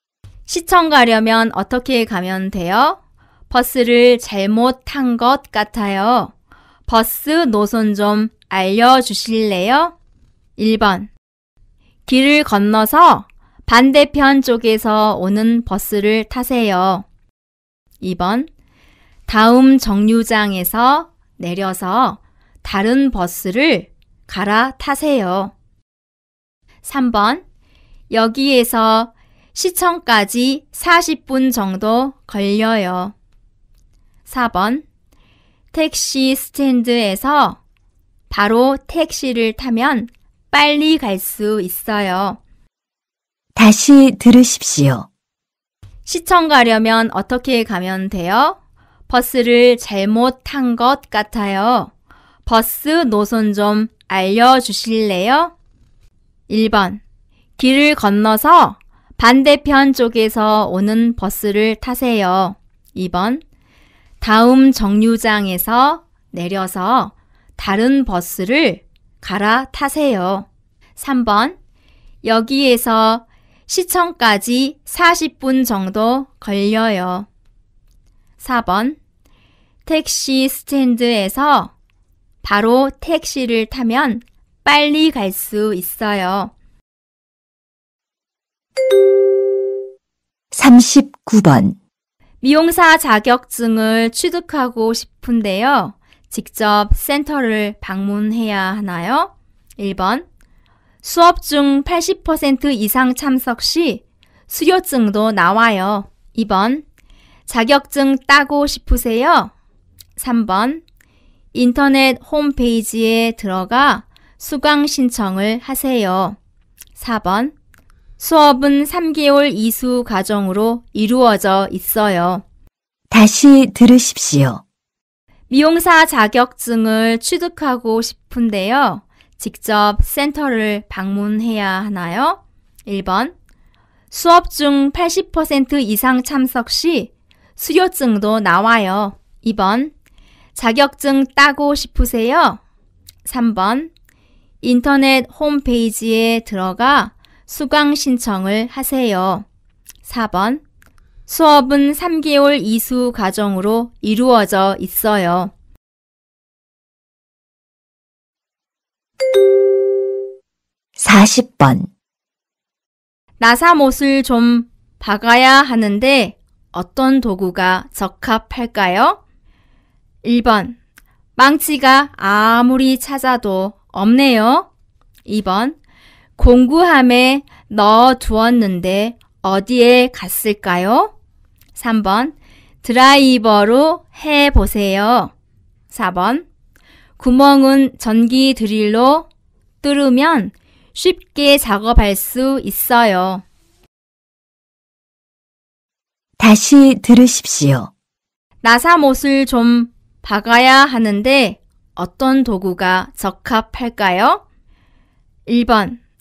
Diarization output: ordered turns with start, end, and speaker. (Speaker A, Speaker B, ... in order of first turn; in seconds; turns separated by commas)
Speaker A: 0.5-3.0, Speaker A: 3.5-6.3, Speaker A: 6.9-9.9, Speaker A: 10.6-11.1, Speaker A: 12.1-17.1, Speaker A: 18.0-18.5, Speaker A: 19.3-25.5, Speaker A: 26.9-27.4, Speaker A: 28.1-33.1, Speaker A: 34.3-34.9, Speaker A: 35.7-37.6, Speaker A: 38.3-42.4, Speaker B: 43.6-45.1, Speaker A: 46.1-48.6, Speaker A: 49.1-51.9, Speaker A: 52.5-55.5, Speaker A: 56.5-57.0, Speaker A: 57.6-63.4, Speaker A: 64.2-71.6, Speaker A: 72.2-77.3, Speaker A: 78.4-79.0, Speaker A: 79.8-81.7, Speaker A: 82.4-86.5, Speaker B: 90.5-91.8, Speaker A: 92.4-100.3, Speaker A: 101.0-106.8, Speaker A: 107.5-109.5, Speaker A: 110.2-110.8, Speaker A: 111.5-116.4, Speaker A: 117.0-117.5, Speaker A: 118.2-122.4, Speaker B: 123.1-124.6, Speaker A: 125.5-133.3, Speaker A: 134.1-139.9, Speaker A: 140.6-142.6, Speaker A: 143.2-143.9, Speaker A: 144.6-149.5, Speaker A: 150.1-150.6, Speaker A: 151.3-155.5, Speaker B: 161.0-161.9, Speaker A: 163.4-169.2, Speaker A: 170.2-170.8, Speaker A: 171.4-174.7, Speaker A: 175.3-175.8, Speaker A: 176.4-181.1, Speaker A: 181.8-185.3, Speaker A: 185.9-186.4, Speaker A: 187.2-189.3, Speaker A: 189.8-193.4, Speaker B: 196.4-197.9, Speaker A: 198.6-204.4, Speaker A: 205.5-206.0